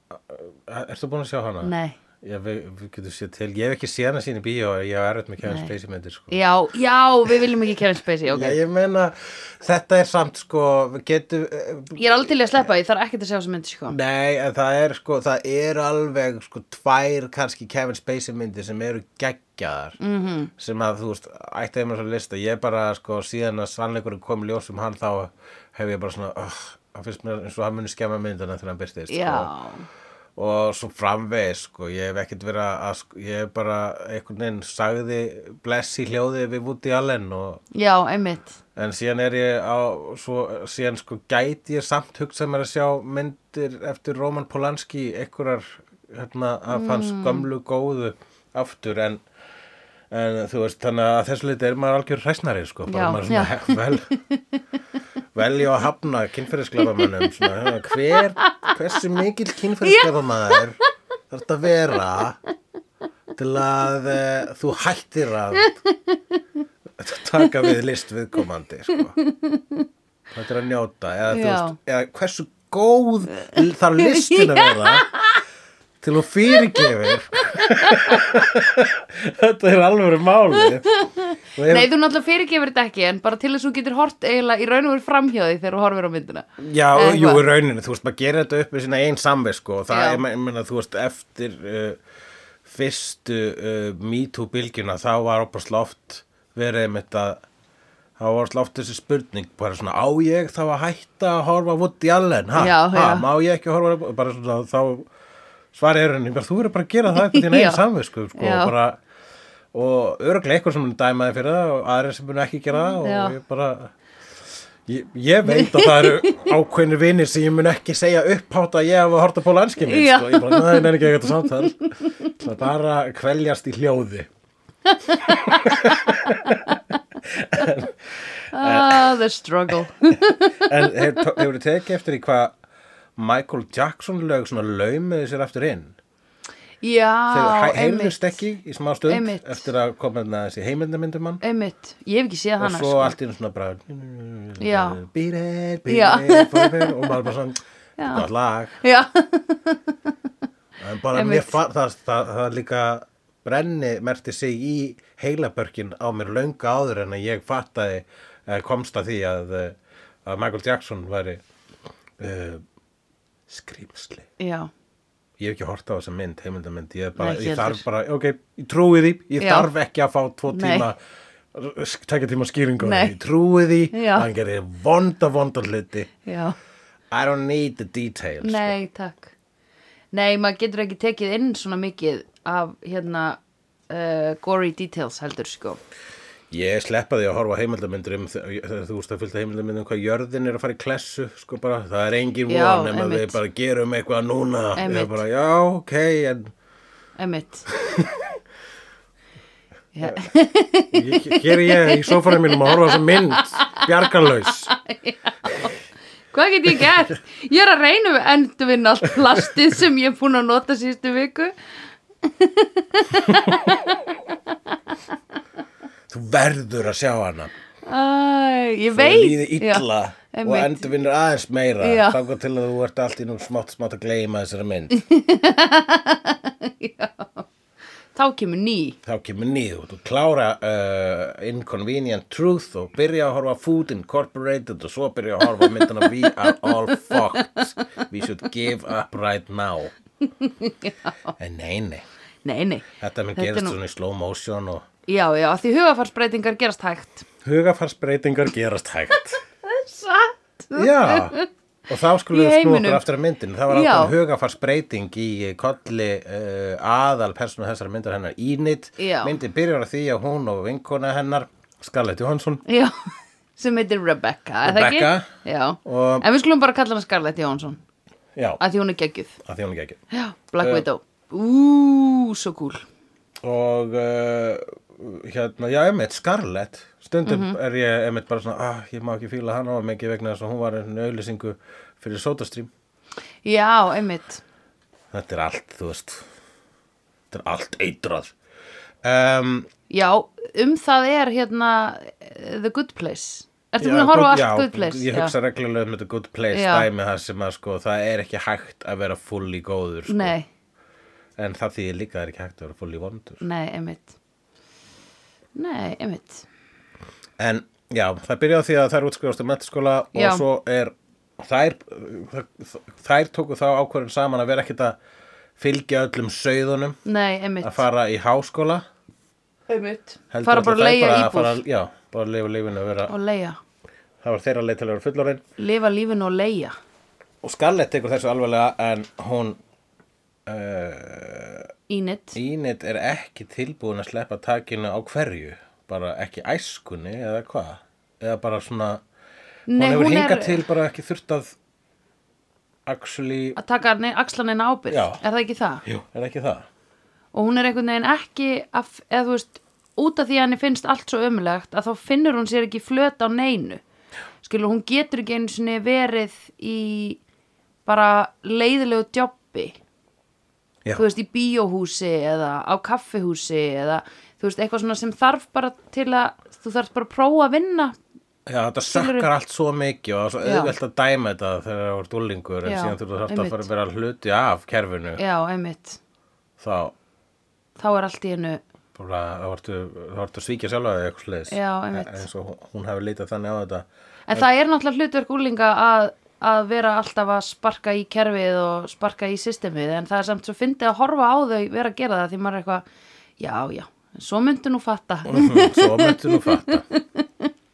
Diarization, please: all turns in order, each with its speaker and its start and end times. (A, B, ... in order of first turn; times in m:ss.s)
0:00.1-0:06.4 A
0:01.6-0:02.0 B
0:05.4-0:05.7 B
0:06.3-0:08.6 B
0:08.3-0:12.3 A
0:12.0-0:14.0 B
0:13.9-0:20.0 A
0:20.0-0:20.5 B
0:20.6-0:29.5 A
0:29.1-0:29.9 B
0:30.4-0:37.6 A
0:37.7-0:38.6 B
0:38.8-0:49.2 A
0:46.7-0:47.5 B
0:50.1-0:54.1 A
0:52.9-0:54.4 B
0:55.4-1:00.8 A
0:58.4-0:58.8 B
0:59.8-1:00.6 B
1:01.3-1:02.4 A
1:03.4-1:05.7 A
1:05.6-1:06.4 B
1:07.0-1:09.2 A
1:07.4-1:07.7 B
1:09.2-1:09.9 B
1:10.3-1:15.1 A
1:11.3-1:11.8 B
1:13.4-1:15.4 B
1:16.0-1:20.9 A
1:16.7-1:18.2 B
1:20.8-1:27.4 B
1:21.6-1:21.9 A
1:26.6-1:32.0 A
1:29.9-1:30.2 B
1:32.7-1:37.4 A
1:38.2-1:45.1 A
1:42.6-1:43.3 B
1:45.7-1:49.0 A
1:47.1-1:47.8 B
1:48.4-1:48.7 B
1:49.7-1:53.9 A
1:53.0-1:53.4 B
1:54.9-2:04.3 A
1:55.5-1:56.5 B
1:59.8-2:01.1 B
2:05.0-2:05.3 B
2:05.2-2:06.7 A
2:07.2-2:09.1 A
2:08.5-2:10.8 B
2:10.1-2:12.6 A
2:13.2-2:16.0 A
2:16.8-2:18.4 B
2:17.3-2:21.4 A
2:19.1-2:19.6 B
2:21.4-2:23.1 B
2:22.6-2:28.8 A
2:24.6-2:25.0 B
2:25.9-2:27.1 B
2:28.0-2:28.3 B
2:28.8-2:29.8 B
2:30.8-2:41.4 A
2:31.1-2:31.6 B
2:42.2-2:42.6 A
2:43.5-2:44.3 A
2:44.4-2:44.7 B
2:45.4-2:51.0 A
2:47.2-2:47.8 B
2:49.4-2:49.7 B
2:50.5-2:50.9 B
2:51.5-2:56.1 A
2:52.8-2:53.2 B
2:53.9-2:54.3 B
2:56.3-2:56.6 B
2:57.1-2:58.8 A
2:58.4-2:59.3 B
3:00.1-3:05.8 B
3:06.5-3:16.5 A
3:12.5-3:13.4 B
3:14.8-3:15.2 B
3:17.2-3:17.7 B
3:17.8-3:18.4 A
3:20.0-3:23.9 B
3:20.9-3:24.7 A
3:24.4-3:25.7 B
3:26.3-3:31.5 B
3:32.2-3:34.0 B
3:36.1-3:37.5 A
3:37.8-3:40.9 B
3:38.9-3:45.0 A
3:41.8-3:42.2 B
3:44.9-3:47.5 B
3:48.2-3:49.0 B
3:49.0-3:59.9 A
3:55.7-3:56.1 B
3:56.6-3:57.7 B
4:00.4-4:01.2 B
4:01.4-4:02.1 A
4:02.4-4:03.8 B
4:03.0-4:04.9 A
4:05.1-4:07.3 B
4:07.4-4:09.4 A
4:09.6-4:11.5 B
4:10.8-4:22.6 A
4:12.3-4:13.0 B
4:13.7-4:14.2 B
4:19.0-4:19.3 B
4:22.7-4:22.9 B
4:23.6-4:27.8 B
4:24.6-4:25.3 A
4:25.8-4:26.3 A
4:28.4-4:28.6 A
4:28.6-4:29.4 B
4:29.4-4:30.0 A
4:30.1-4:32.8 B
4:30.6-4:30.8 A
4:33.4-4:42.7 A
4:37.2-4:37.6 B
4:43.4-4:44.4 B
4:45.1-4:46.2 A
4:47.3-4:48.3 A
4:49.0-4:49.7 A
4:49.9-4:55.3 B
4:53.8-5:00.4 A
4:56.5-4:56.9 B
5:00.1-5:00.5 B
5:01.4-5:03.4 A
5:03.4-5:04.2 B
5:05.6-5:06.5 B
5:07.4-5:15.0 A
5:10.1-5:10.4 B
5:15.6-5:17.0 A
5:17.0-5:17.8 B
5:17.6-5:18.8 A
5:19.7-5:21.6 B
5:20.3-5:23.1 A
5:23.1-5:23.6 B
5:24.2-5:25.4 A
5:25.6-5:26.8 B
5:27.4-5:29.6 A
5:30.5-5:31.7 A
5:31.9-5:32.4 B
5:32.4-5:39.0 A
5:39.7-5:40.6 B
5:39.7-5:41.6 A
5:42.9-5:43.6 A
5:43.6-5:45.8 B
5:44.9-5:45.2 A
5:45.8-5:46.7 A
5:47.3-5:53.8 B
5:54.4-5:57.2 B
5:57.9-5:59.8 B
6:01.0-6:08.0 B
6:08.5-6:15.2 A
6:08.9-6:09.3 B
6:10.4-6:10.7 B
6:12.6-6:13.7 B
6:15.2-6:16.0 B
6:16.6-6:16.9 A
6:17.8-6:18.6 B
6:19.0-6:24.5 A
6:21.5-6:22.3 B
6:24.3-6:32.8 B
6:33.4-6:37.5 B
6:35.3-6:36.8 A